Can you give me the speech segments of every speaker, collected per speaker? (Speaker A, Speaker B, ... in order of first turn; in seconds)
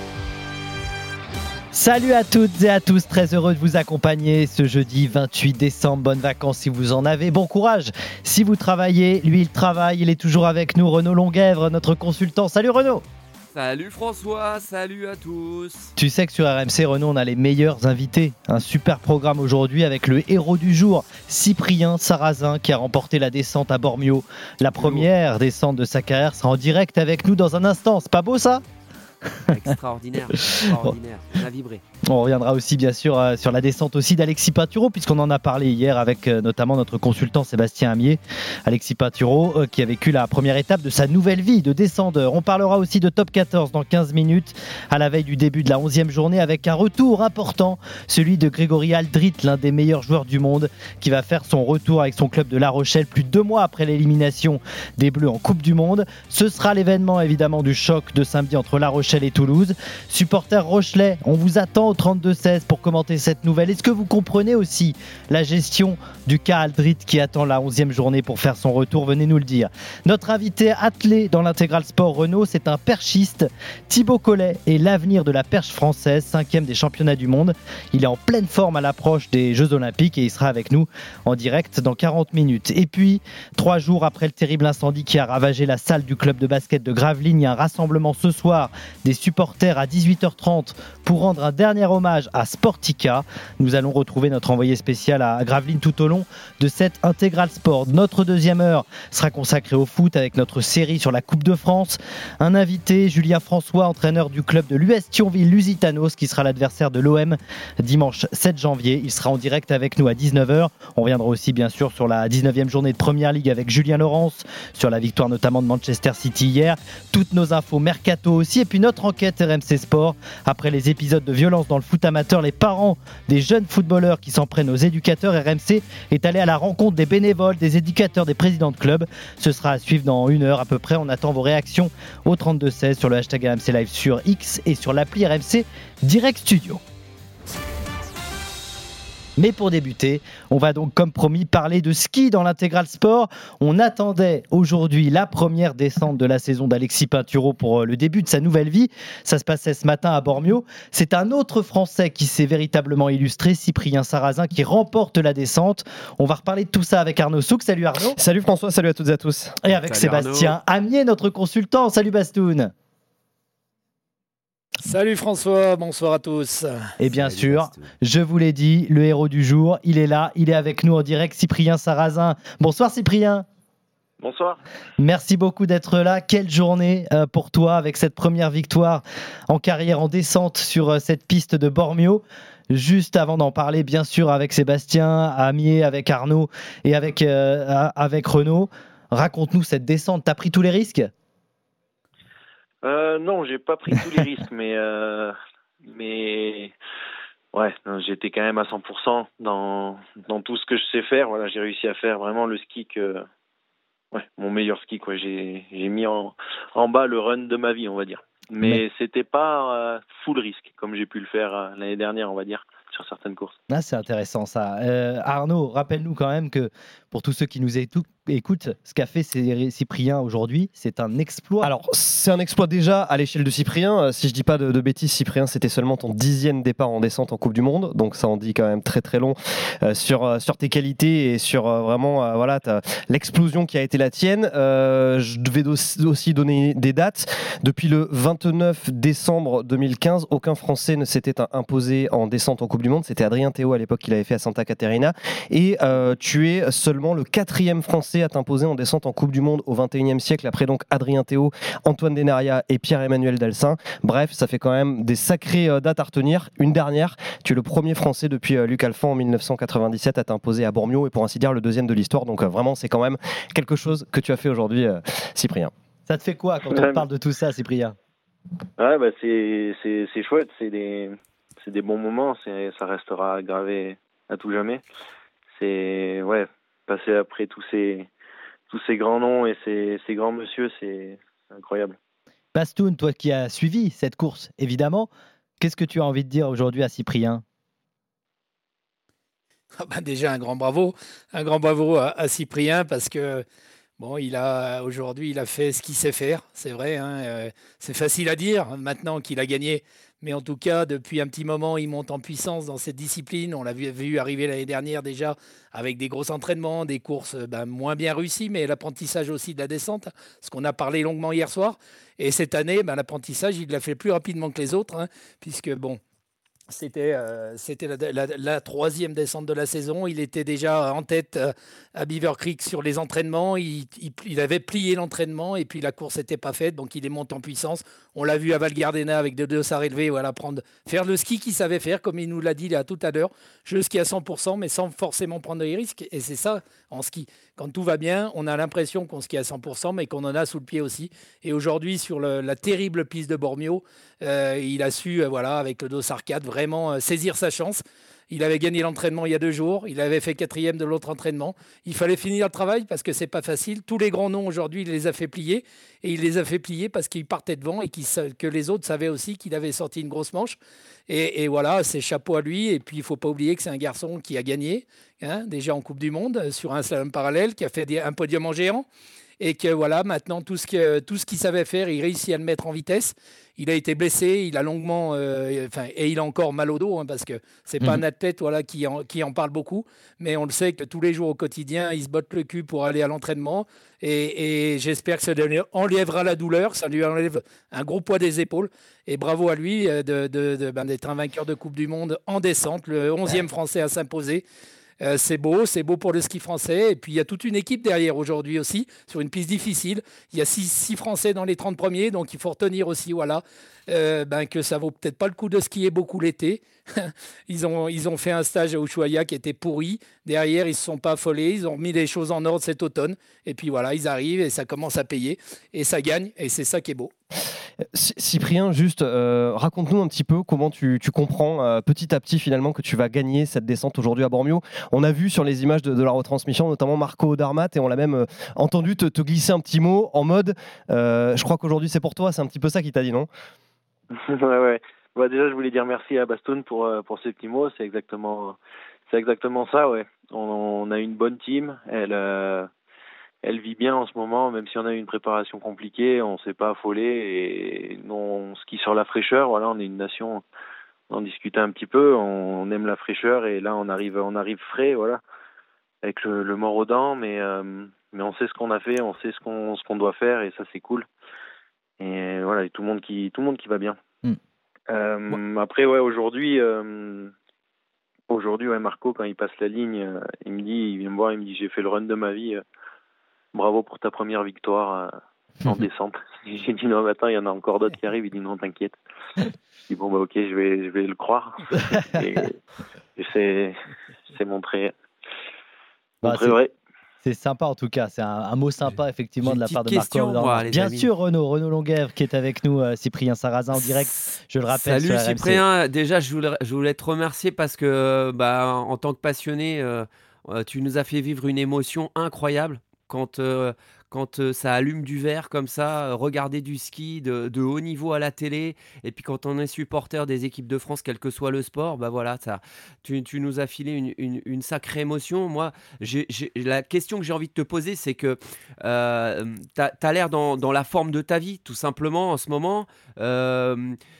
Speaker A: 1.7-13.0, 16.0-28.6, 30.6-30.9, 32.1-136.8, 139.4-158.2, 159.6-162.7, 167.0-173.4, 175.0-191.1, 213.7-221.7, 266.1-267.9, 282.5-285.1, 285.6-287.4, 481.9-482.4, 486.2-486.6, 487.2-495.6
Speaker B: 13.5-15.9, 24.8-25.1, 29.5-31.8, 159.8-160.6, 167.1-167.8, 489.4-491.1, 494.7-524.0
Speaker C: 158.2-159.6, 221.6-265.7, 417.9-433.3
Speaker D: 164.8-166.9, 289.8-293.4, 294.0-316.0, 316.7-368.8, 369.4-394.4, 395.0-417.1
Speaker E: 174.2-174.6, 192.8-195.3, 195.8-196.7, 197.5-203.2, 204.1-213.5, 268.8-274.8, 275.6-278.1, 278.7-281.9, 434.1-442.7, 443.4-450.4, 451.1-455.2, 456.0-461.1, 462.0-464.0, 464.9-467.3, 468.3-472.6, 473.5-475.1, 475.7-478.9, 479.9-481.5, 482.2-482.5, 483.2-483.7, 484.3-484.9